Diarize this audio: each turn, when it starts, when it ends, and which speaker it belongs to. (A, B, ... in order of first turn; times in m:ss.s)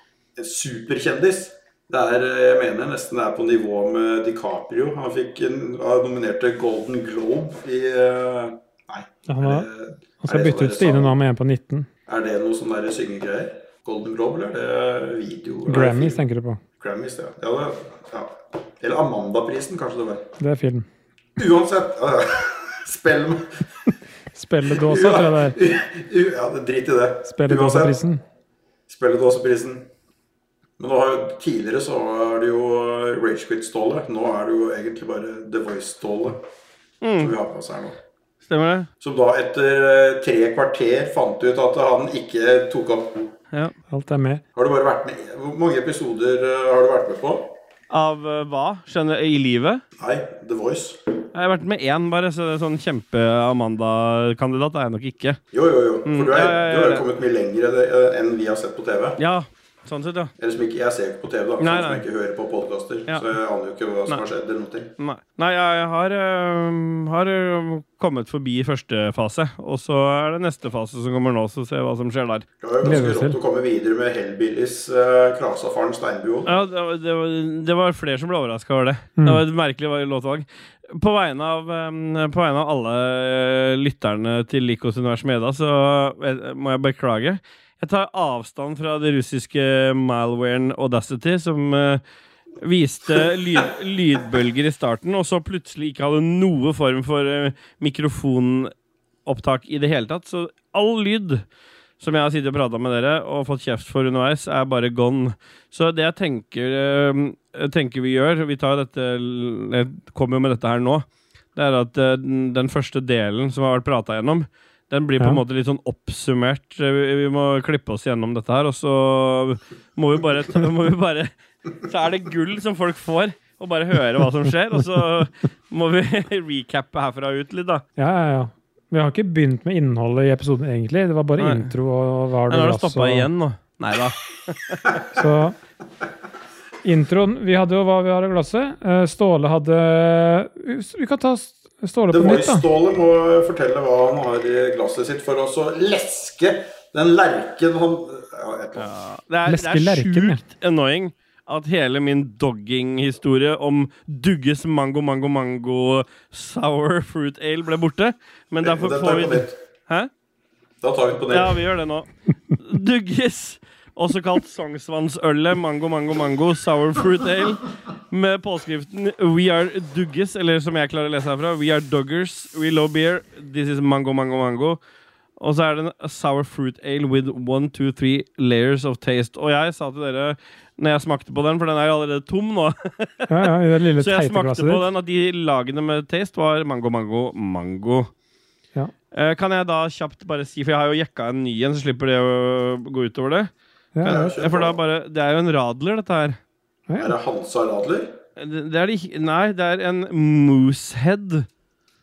0:00.4-0:11.2 A
0:09.3-0:09.7 B
0:10.2-0:11.9 B
0:12.1-0:16.2 A
0:15.7-0:16.6 B
0:16.8-0:20.3 A
0:20.4-0:20.9 B
0:21.4-0:23.6 A
0:24.3-0:25.6 B
0:24.7-0:28.0 A
0:27.3-0:28.2 B
0:28.9-0:29.9 A
0:30.8-0:36.4 A
0:37.0-0:37.4 C
0:37.2-0:38.0 A
0:38.5-0:38.9 C
0:39.0-0:43.3 A
0:43.9-0:44.4 B
0:44.6-0:47.5 A
0:47.9-0:49.8 C
0:50.0-0:51.0 A
0:51.3-0:55.4 C
0:55.5-0:59.2 A
0:56.1-0:57.0 C
0:59.2-1:00.3 C
1:00.4-1:04.9 A
1:01.6-1:02.0 C
1:05.0-1:12.4 C
1:12.6-1:16.5 A
1:12.8-1:13.4 B
1:16.5-1:32.0 C
1:19.2-1:19.4 B
1:32.6-1:38.7 C
1:39.3-1:41.4 C
1:42.0-1:51.0 C
1:51.6-2:07.8 C
2:08.0-2:13.3 B
2:11.4-2:11.7 C
2:12.5-2:15.0 C
2:15.1-2:15.6 B
2:16.8-2:22.6 B
2:22.1-2:28.9 A
2:28.8-2:40.1 C
2:29.5-2:30.4 B
2:38.6-2:39.6 A
2:40.8-2:41.6 A
2:41.3-2:54.8 C
2:55.4-3:08.1 C
3:03.3-3:04.8 B
3:09.1-3:13.5 C
3:14.0-3:14.4 B
3:14.0-3:14.8 A
3:14.0-3:16.4 C
3:16.9-3:17.1 B
3:17.0-3:18.1 A
3:18.4-3:21.5 C